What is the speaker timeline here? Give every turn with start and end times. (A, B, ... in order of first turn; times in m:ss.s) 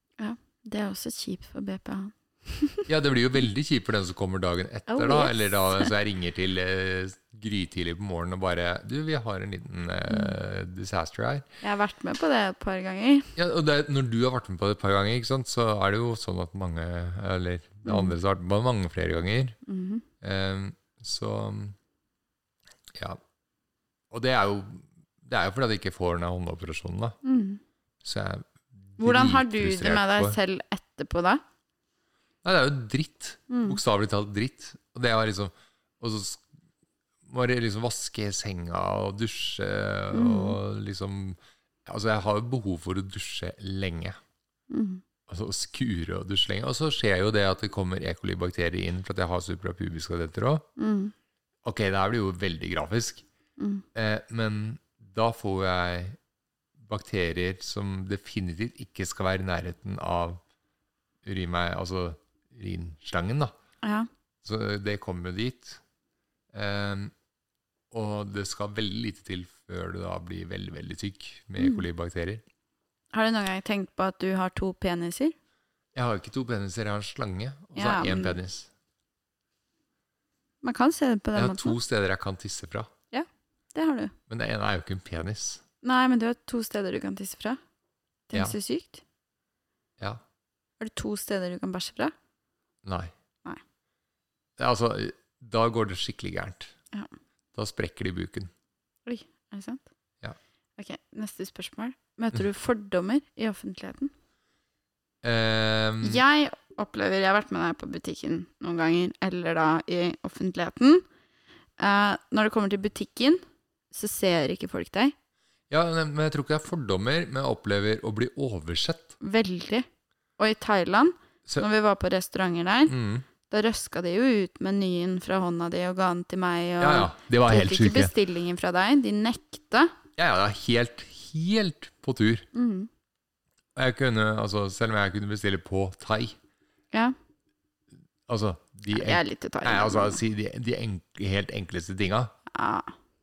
0:00.2-0:02.9 A
0:02.9-0:11.5 B
0:04.9-0:05.9 A
0:10.1-0:10.4 A
0:11.6-0:13.3 A
0:13.4-0:19.6 B
0:17.8-0:18.2 A
0:19.7-0:20.0 A
0:20.2-0:21.8 B
0:23.0-0:23.2 B
0:24.1-0:27.2 B
0:27.2-0:27.6 A
0:28.0-0:30.4 B
0:29.0-0:31.4 A
0:32.4-0:36.4 B
0:33.5-0:33.8 A
0:37.3-0:44.2 B
0:40.1-0:40.6 A
0:44.7-0:45.0 A
0:45.3-0:50.7 B
0:50.8-0:51.1 A
0:51.6-0:53.2 B
0:53.6-0:53.8 A
0:54.0-0:56.2 B
0:56.8-1:00.4 B
1:01.2-1:03.5 B
1:03.8-1:04.1 A
1:04.4-1:05.8 B
1:06.5-1:07.1 B
1:07.9-1:12.4 B
1:11.6-1:11.8 A
1:13.1-1:15.4 A
1:16.0-1:18.7 B
1:17.8-1:18.4 A
1:20.6-1:21.8 A
1:21.4-1:22.9 B
1:23.1-1:24.1 A
1:24.3-1:25.6 B
1:25.8-1:27.6 A
1:28.3-1:29.0 A
1:30.8-1:32.1 A
1:32.8-1:33.1 B
1:34.6-1:36.8 B
1:37.5-1:38.5 B
1:39.1-1:39.8 A
1:40.8-1:44.1 A
1:45.2-1:46.2 B
1:46.0-1:51.0 A
1:51.8-1:53.4 A
1:53.9-1:55.1 A
1:55.7-1:59.2 B
1:59.2-1:59.9 A
2:00.4-2:02.9 A
2:02.9-2:03.3 B
2:03.5-2:09.9 A
2:06.8-2:08.1 B
2:10.2-2:12.5 B
2:12.5-2:12.9 A
2:13.8-2:16.4 B
2:18.3-2:22.3 B
2:18.9-2:20.2 A
2:22.5-2:22.9 A